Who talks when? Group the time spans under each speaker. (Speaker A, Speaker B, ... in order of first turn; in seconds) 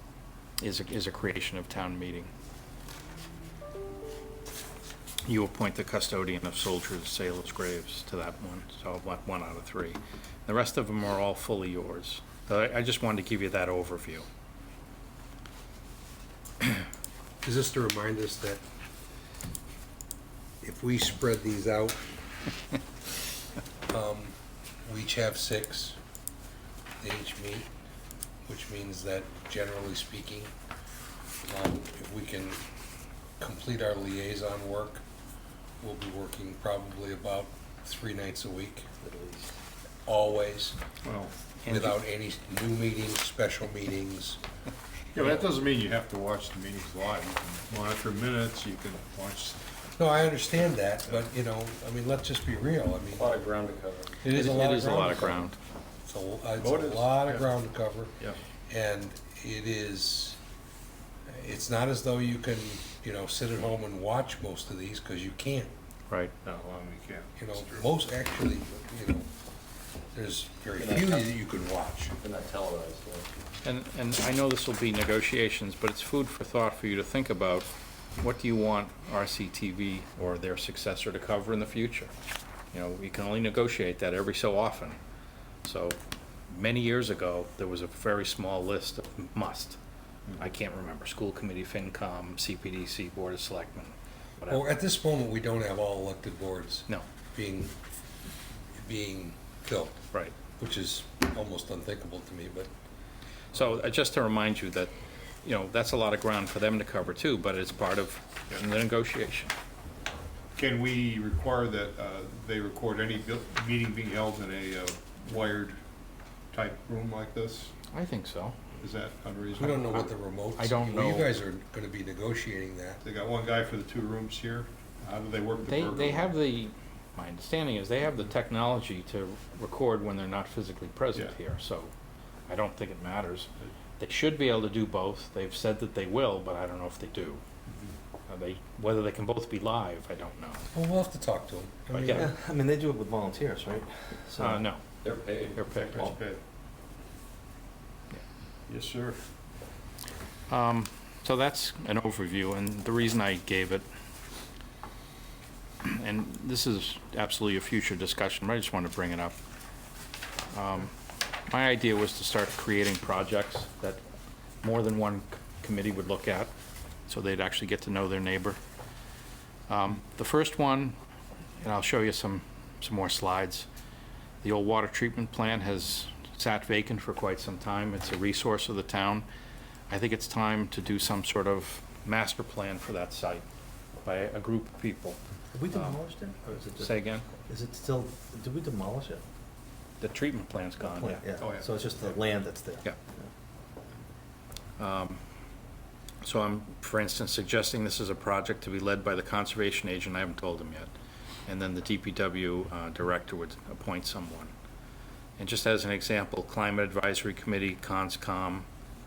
Speaker A: 0.6-2.3, 5.2-14.2, 41.6-42.0, 54.3-55.6, 73.6-82.1, 82.7-85.0, 85.6-86.0, 86.5-89.8, 90.4-94.6, 103.5-104.9, 105.4-109.5, 117.9-118.6, 120.6-121.3, 125.7-131.9, 132.5-133.5, 134.0-137.4, 138.3-140.7, 141.9-142.3, 144.4-144.8, 145.6-146.1, 150.5-153.8, 155.8-159.3, 160.5-164.0, 164.6-166.5, 167.1-168.6, 169.7-170.9, 171.6-173.7, 174.4-179.2, 179.9-183.4, 184.0-185.2, 185.7-186.0, 186.8-187.2, 190.0-191.2, 194.8-195.2, 196.2-200.9, 201.4-204.5, 205.4-208.7
Speaker B: 17.4-18.6, 20.6-22.0, 23.9-24.3, 24.9-26.0, 27.0-27.7, 28.4-30.5, 31.5-32.6, 33.4-35.0, 35.8-38.9, 40.0-40.8, 41.7-44.4, 50.0-53.3, 54.2-55.5, 56.0-58.1, 58.7-60.4, 61.3-65.7, 67.4-69.3, 70.1-72.2, 94.5-97.7, 98.8-100.0, 100.6-102.7, 119.5-123.0, 140.7-142.3
Speaker C: 39.0-39.5, 142.1-144.6, 185.5-186.9, 187.4-189.2, 190.8-193.3
Speaker D: 41.0-41.3, 45.1-49.7, 56.7-57.5, 66.4-68.0, 110.5-115.8, 116.5-117.7, 118.8-120.1, 123.0-126.3, 145.8-146.4, 148.7-149.2, 191.4-192.2
Speaker E: 53.1-54.2, 56.6-57.1, 70.8-71.3, 72.2-73.3, 145.0-146.1